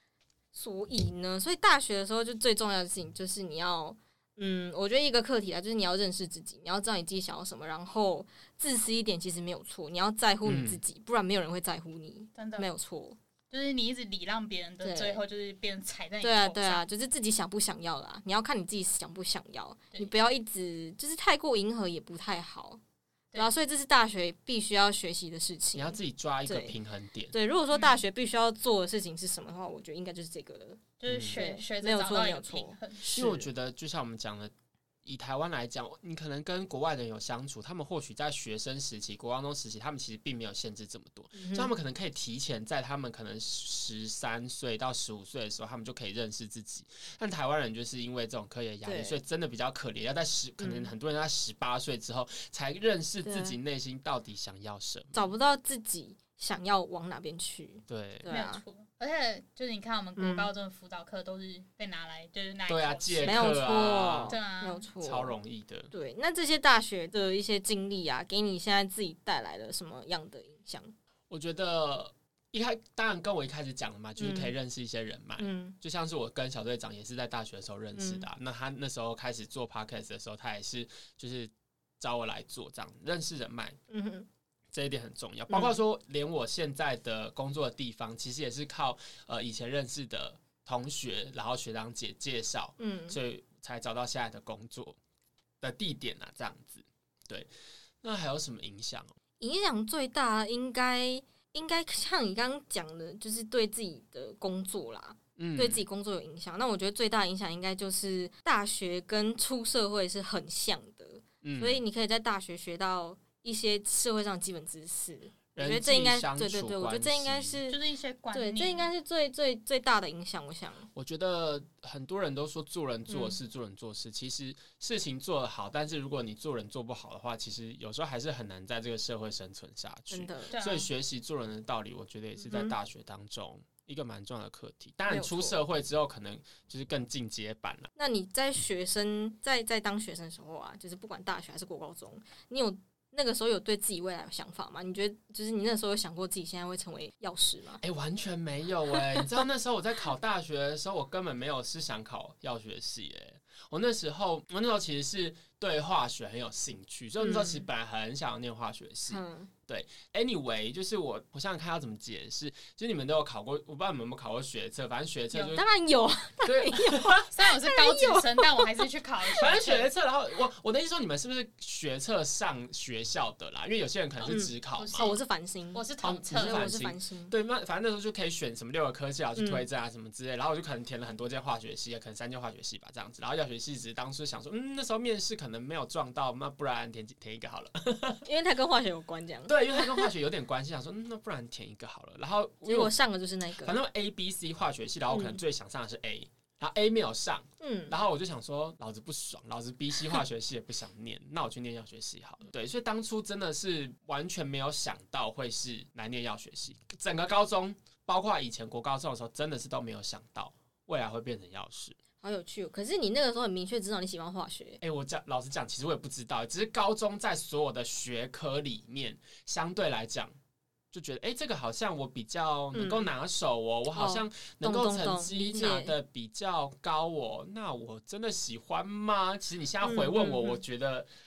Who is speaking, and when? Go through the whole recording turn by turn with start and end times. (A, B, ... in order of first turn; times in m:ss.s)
0:00.5-0:13.2 A
0:10.4-0:10.8 B
0:12.3-0:12.7 C
0:13.5-0:16.8 C
0:14.8-0:15.2 A
0:16.2-0:22.8 A
0:23.4-0:26.7 A
0:25.7-0:27.3 B
0:27.3-0:33.5 A
0:27.7-0:28.0 C
0:31.0-0:33.1 C
0:31.1-0:31.4 B
0:33.1-0:34.5 B
0:35.0-0:55.3 B
0:41.3-0:41.7 A
0:48.8-0:49.2 A
0:50.6-0:50.9 A
0:53.2-0:53.6 A
0:55.1-0:58.6 A
0:57.9-0:58.3 B
0:58.3-1:03.6 C
1:00.2-1:00.5 A
1:02.7-1:04.4 B
1:03.2-1:05.3 A
1:04.3-1:04.9 C
1:05.0-1:05.9 B
1:05.9-1:10.9 A
1:11.3-1:23.8 B
1:14.2-1:14.5 A
1:15.4-1:15.8 A
1:17.9-1:18.2 A
1:23.9-1:24.3 A
1:24.7-1:35.0 B
1:25.5-1:25.8 A
1:32.8-1:33.2 A
1:35.6-1:37.5 B
1:38.0-1:39.1 B
1:39.4-1:57.8 A
1:45.4-1:45.8 B
1:51.4-1:51.8 B
1:55.5-1:57.6 B
1:57.7-1:58.9 C
1:58.3-2:00.9 A
2:00.9-2:17.9 B
2:03.1-2:03.4 A
2:10.1-2:10.5 A
2:10.5-2:10.9 C
2:12.4-2:12.7 A
2:15.1-2:15.6 A
2:18.0-2:27.8 A
2:27.8-2:45.6 B
2:28.9-2:29.3 A
2:37.2-2:37.6 A
2:39.1-2:39.5 A
2:45.3-2:45.6 C
2:45.4-2:48.8 A
2:46.4-2:47.3 B
2:47.3-2:49.9 C
2:49.3-2:55.1 B
2:54.2-2:55.2 C
2:54.2-2:57.3 A
2:55.7-2:56.7 C
2:56.0-3:08.2 B
2:59.4-2:59.6 A
3:08.2-3:10.1 A
3:09.5-3:12.9 B
3:12.6-3:13.8 A
3:13.6-3:32.0 B
3:15.1-3:15.4 A
3:17.6-3:18.0 A
3:32.2-3:34.8 A
3:34.8-3:40.3 B
3:40.9-3:51.1 B
3:42.7-3:43.1 A
3:43.9-3:45.9 A
3:49.8-3:50.6 A